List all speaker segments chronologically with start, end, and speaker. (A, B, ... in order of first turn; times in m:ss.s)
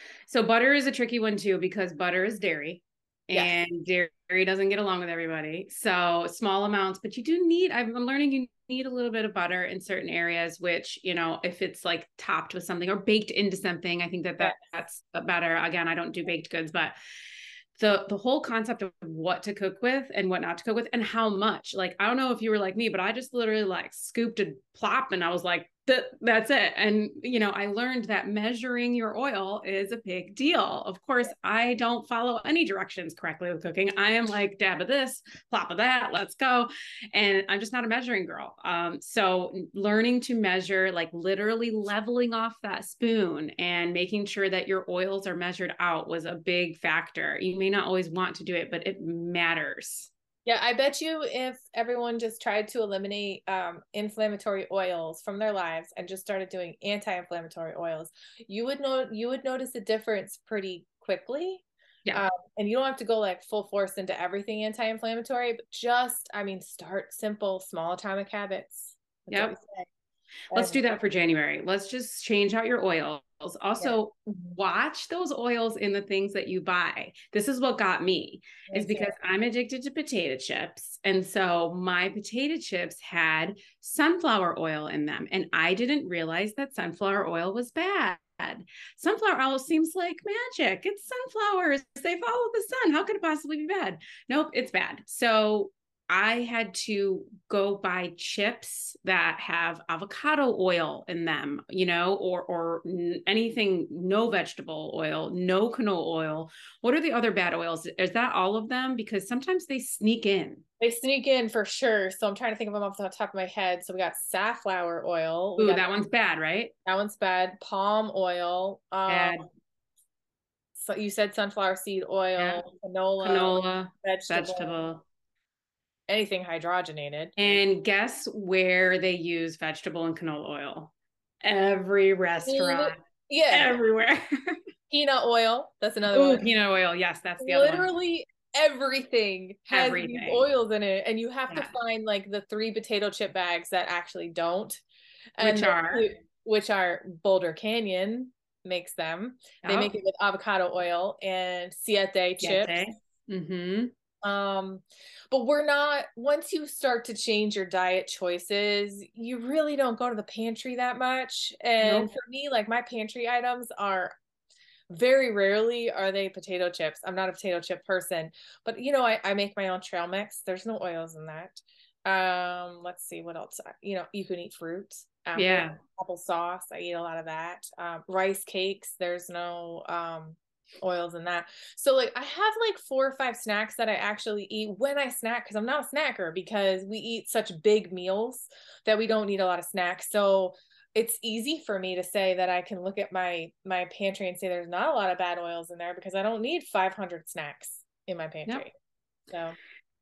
0:00.3-0:17.0 A
0:14.4-0:14.8 B
0:17.8-0:50.1 A
0:50.5-1:09.9 B
1:09.3-1:09.6 A
1:10.5-1:10.8 B
1:10.5-1:50.6 A
1:13.8-1:14.6 B
1:18.7-1:19.1 B
1:50.8-1:55.9 B
1:55.6-1:56.7 A
1:56.8-1:59.4 B
1:59.1-1:59.4 A
2:00.8-2:04.9 B
2:02.4-2:02.6 A
2:03.2-2:05.0 A
2:06.1-2:07.4 B
2:07.4-2:13.0 A
2:12.4-2:13.7 B
2:13.5-2:14.6 A
2:14.9-2:16.5 B
2:16.1-2:17.9 A
2:17.4-2:24.8 B
2:19.7-2:20.5 A
2:25.4-2:32.8 B
2:25.4-2:26.0 A
2:29.6-2:29.9 A
2:32.4-2:33.9 A
2:34.2-2:44.2 B
2:41.8-2:42.1 A
2:44.9-3:18.7 B
2:55.4-2:55.8 A
3:19.3-3:19.6 B